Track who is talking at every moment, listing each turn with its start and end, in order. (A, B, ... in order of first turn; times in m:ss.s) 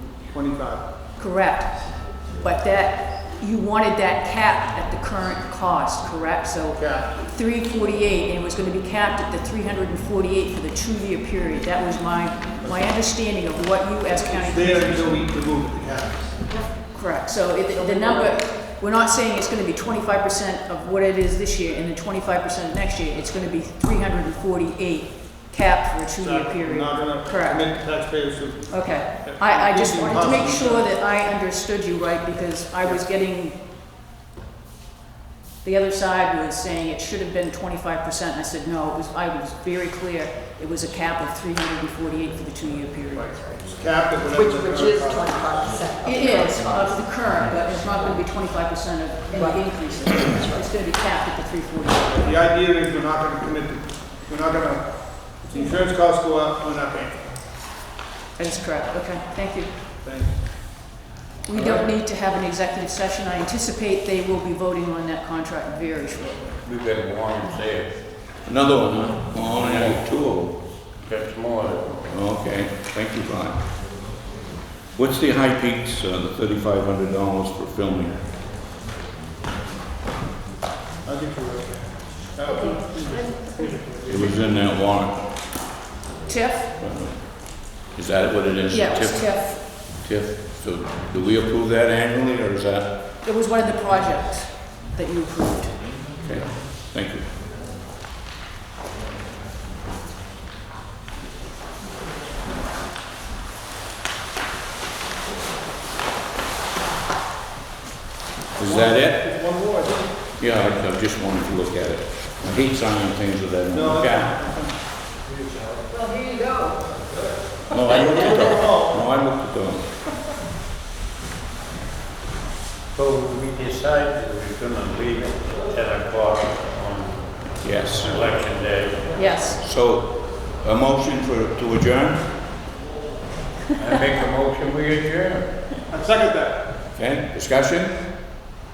0:00.3-0:00.8 A
0:01.2-0:15.2 B
0:06.8-0:07.1 A
0:14.3-0:16.4 A
0:16.9-0:27.7 B
0:17.8-0:18.3 C
0:26.2-0:30.9 A
0:28.7-0:33.6 B
0:35.6-0:43.5 B
0:43.2-0:45.5 A
0:44.3-0:47.1 C
0:46.0-0:52.3 B
0:49.3-0:49.6 C
0:52.1-0:57.3 A
0:58.4-0:59.7 B
1:00.0-1:00.3 A
1:01.4-1:06.4 B
1:06.6-1:08.0 D
1:08.4-1:10.6 E
1:09.6-1:10.0 D
1:11.0-1:12.0 D
1:12.1-1:13.7 E
1:14.9-1:18.2 E
1:21.0-1:23.9 A
1:22.5-1:23.3 B
1:22.6-1:23.8 C
1:24.0-1:25.1 E
1:26.2-1:26.7 B
1:26.8-1:32.9 E
1:28.7-1:29.6 B
1:33.2-1:35.8 B
1:36.2-1:37.3 E
1:48.6-1:49.2 E
1:48.6-1:50.1 A
1:50.4-1:54.4 E
1:53.7-1:54.7 A
1:55.9-1:56.8 C
1:57.7-1:59.9 E
1:58.0-1:59.0 A
2:02.9-2:09.2 D
2:07.6-2:08.2 E
2:09.1-2:09.6 B
2:09.6-2:12.3 E
2:13.7-2:15.5 D
2:15.9-2:16.6 A
2:16.9-2:18.1 E